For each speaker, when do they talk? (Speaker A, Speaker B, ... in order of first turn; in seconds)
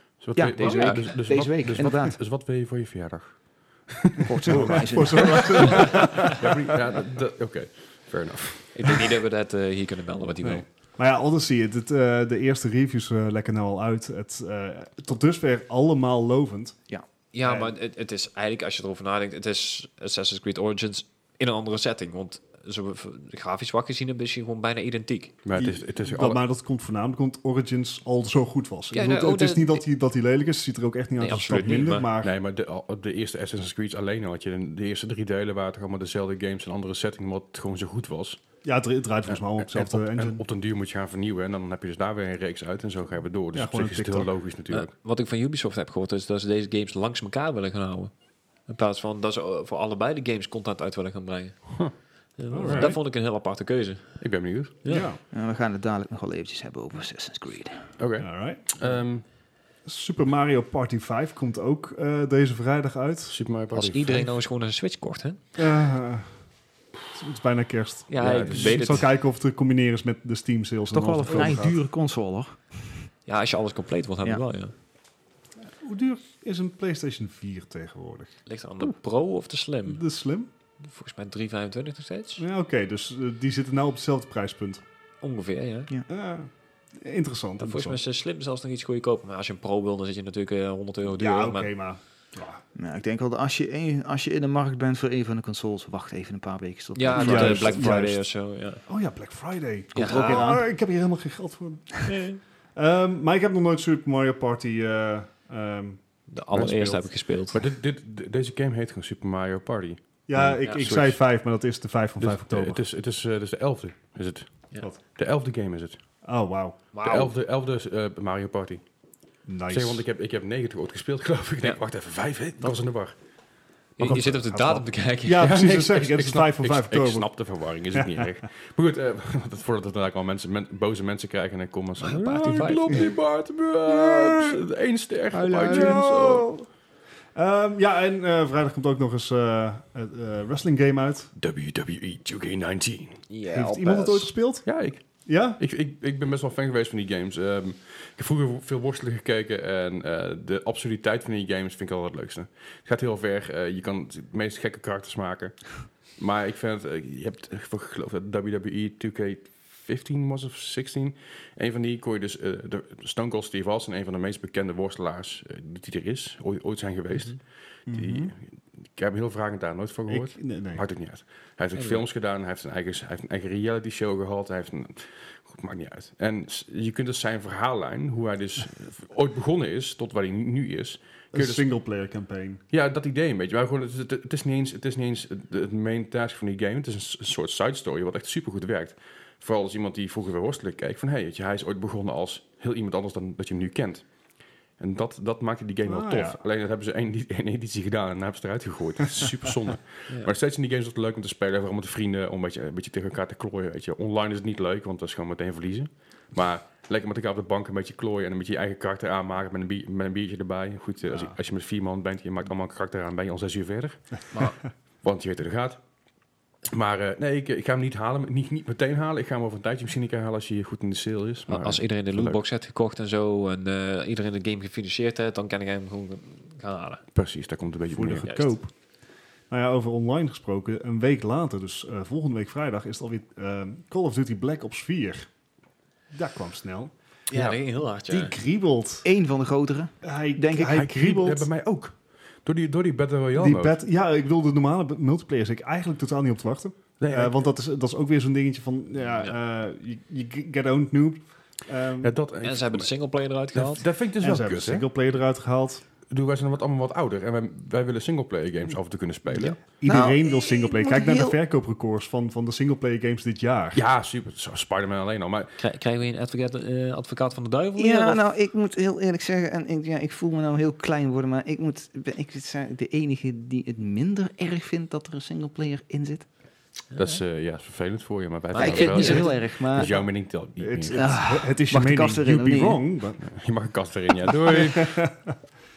Speaker A: 0.2-9.0, 25.4-26.4, 32.2-38.4, 39.3-44.9, 52.6-53.0, 54.2-54.8, 58.0-59.2, 63.3-64.3, 68.2-69.0, 107.5-111.2, 112.2-116.0, 117.0-118.8, 119.7-123.1, 125.4-136.5, 141.4-143.2, 144.6-181.7, 182.7-194.0, 194.8-215.8, 216.7-222.4, 227.1-228.3, 237.3-237.6, 240.7-243.8, 247.0-247.5, 252.0-252.9, 253.5-254.9, 256.1-259.6, 263.7-265.6, 276.9-281.0, 283.2-285.1
Speaker B: 0.3-2.2, 4.2-5.8, 55.3-57.9, 70.9-72.6, 92.7-97.9, 100.0-100.6, 239.0-240.8, 259.9-261.4, 267.8-276.3, 278.6-279.9, 280.9-282.8
Speaker C: 0.6-1.0, 8.7-10.7, 17.3-25.4, 28.9-29.8, 31.2-32.1, 44.7-48.1, 48.7-51.8, 52.4-54.2, 54.8-55.1, 63.7-65.4, 68.1-69.1, 73.3-74.7, 78.5-80.0, 80.8-82.4, 85.2-85.9, 87.6-91.7, 96.9-98.8, 99.9-100.5, 102.0-102.4, 106.3-107.6, 110.6-111.0, 116.9-117.3, 124.0-125.7, 132.0-133.1, 143.3-144.3, 171.8-172.0, 214.3-214.6, 221.5-227.0, 228.2-228.5, 237.3-238.4, 252.4-253.9, 265.6-268.2, 276.9-277.2, 278.5-279.4
Speaker D: 4.5-6.8, 10.4-16.8, 17.4-17.7, 25.5-32.3, 38.6-40.4, 43.5-44.3, 52.5-53.0, 54.9-55.2, 58.2-58.9, 59.8-63.4, 65.6-66.3, 67.1-71.8, 75.8-78.4, 79.9-80.5, 82.4-84.8, 86.1-88.0, 91.2-92.6, 97.1-98.2, 98.9-102.1, 102.7-107.0, 110.3-112.8, 116.2-116.8, 119.5-120.0, 124.0-127.3, 127.9-128.4, 132.9-133.1, 133.9-134.6, 135.3-136.7, 137.3-141.3, 143.5-144.7, 145.2-145.6, 167.9-168.3, 170.1-170.8, 181.3-182.6, 195.8-196.4, 227.9-228.7, 229.5-235.3, 236.1-236.9, 238.1-239.1, 240.0-241.5, 243.3-252.1, 254.2-255.8, 259.3-263.8, 280.6-283.3, 284.5-285.2